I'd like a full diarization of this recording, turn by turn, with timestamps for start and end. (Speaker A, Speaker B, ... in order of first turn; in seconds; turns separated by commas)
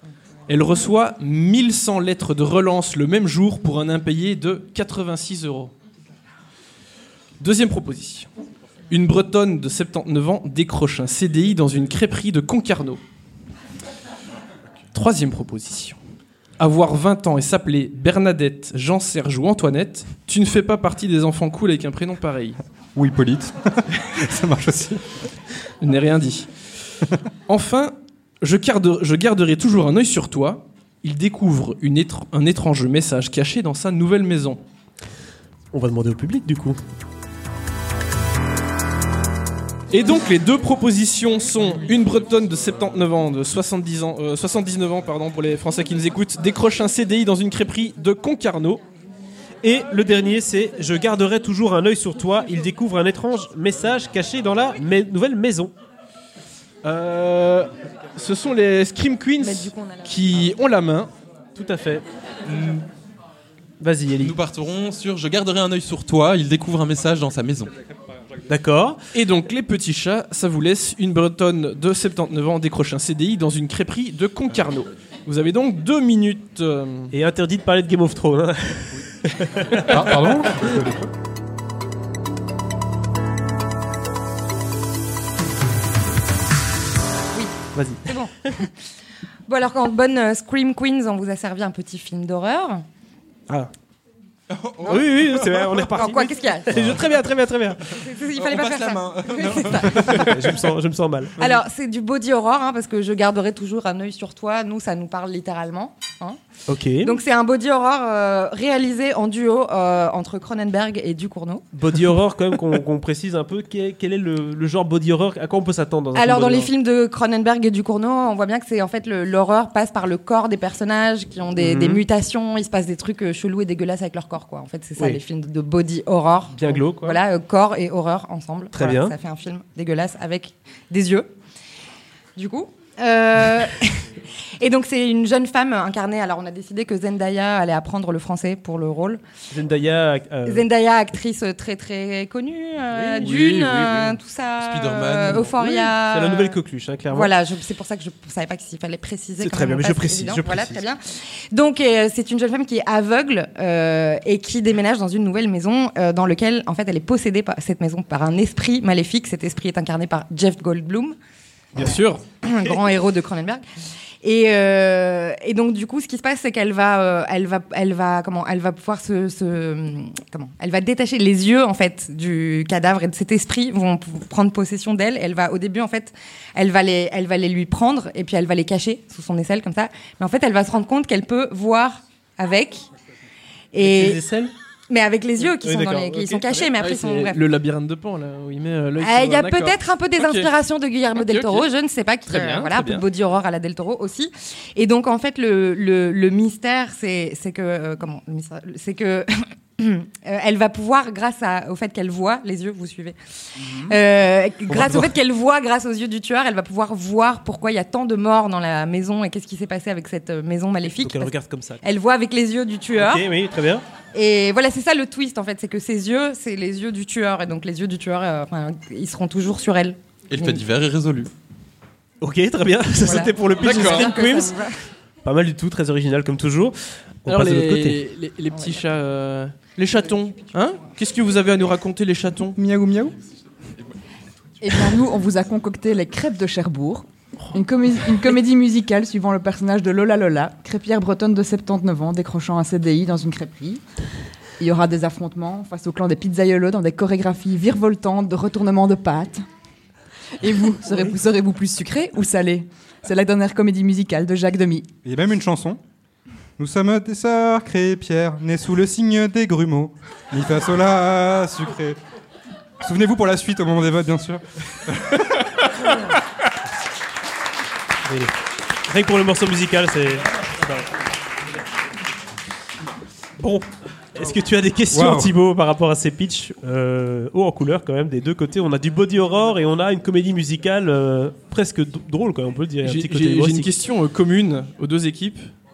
Speaker A: 0.5-5.7, Speaker A: 7.4-8.3, Speaker A: 8.9-13.0, Speaker A: 14.9-16.0, Speaker A: 16.6-22.6, Speaker B: 22.9-25.2, Speaker A: 25.8-26.5, Speaker A: 27.5-34.6, Speaker C: 35.7-36.8, Speaker A: 39.9-48.8, Speaker C: 49.6-55.7, Speaker A: 56.8-61.1, Speaker D: 59.4-60.5, Speaker C: 61.6-62.0, Speaker E: 62.5-62.9, Speaker C: 63.8-64.3, Speaker E: 64.2-67.7, Speaker C: 68.5-69.1, Speaker A: 69.1-77.2, Speaker C: 77.1-80.8, Speaker B: 79.8-81.1, Speaker D: 87.3-88.7, Speaker C: 87.7-88.0, Speaker D: 89.5-92.8, Speaker E: 94.5-95.8, Speaker C: 94.8-98.0, Speaker D: 96.0-96.7, Speaker D: 97.9-100.2, Speaker E: 98.3-100.6, Speaker C: 100.0-101.6, Speaker D: 101.4-106.4, Speaker C: 106.7-107.2, Speaker D: 107.0-111.7, Speaker C: 111.7-116.7, Speaker D: 116.2-131.3, Speaker C: 121.6-122.0, Speaker C: 126.5-127.2, Speaker C: 128.7-129.2, Speaker D: 132.4-139.2, Speaker C: 139.5-140.7, Speaker D: 140.4-146.6, Speaker A: 143.0-144.2, Speaker E: 144.6-145.6, Speaker C: 145.6-147.3, Speaker D: 147.1-161.2, Speaker C: 149.4-150.8, Speaker A: 161.8-162.2, Speaker D: 162.4-163.6, Speaker D: 164.2-182.9, Speaker D: 183.7-184.2, Speaker C: 183.8-184.5, Speaker D: 184.9-187.4, Speaker C: 185.4-186.7, Speaker A: 186.8-190.5, Speaker D: 189.0-213.2, Speaker A: 191.1-191.7, Speaker A: 192.3-193.1, Speaker B: 204.7-205.2, Speaker C: 211.0-211.8, Speaker C: 213.0-213.8, Speaker D: 214.1-220.6, Speaker E: 220.3-221.3, Speaker C: 222.2-224.6, Speaker D: 223.0-224.8, Speaker A: 223.6-224.1, Speaker C: 225.2-228.0, Speaker A: 227.3-232.6, Speaker B: 232.6-233.1, Speaker F: 234.6-243.8, Speaker F: 244.6-249.4, Speaker F: 250.4-254.9, Speaker B: 255.0-255.8, Speaker B: 256.6-262.0, Speaker B: 262.8-265.3, Speaker C: 268.1-270.9, Speaker C: 273.4-283.7, Speaker B: 274.9-275.4, Speaker A: 282.8-285.5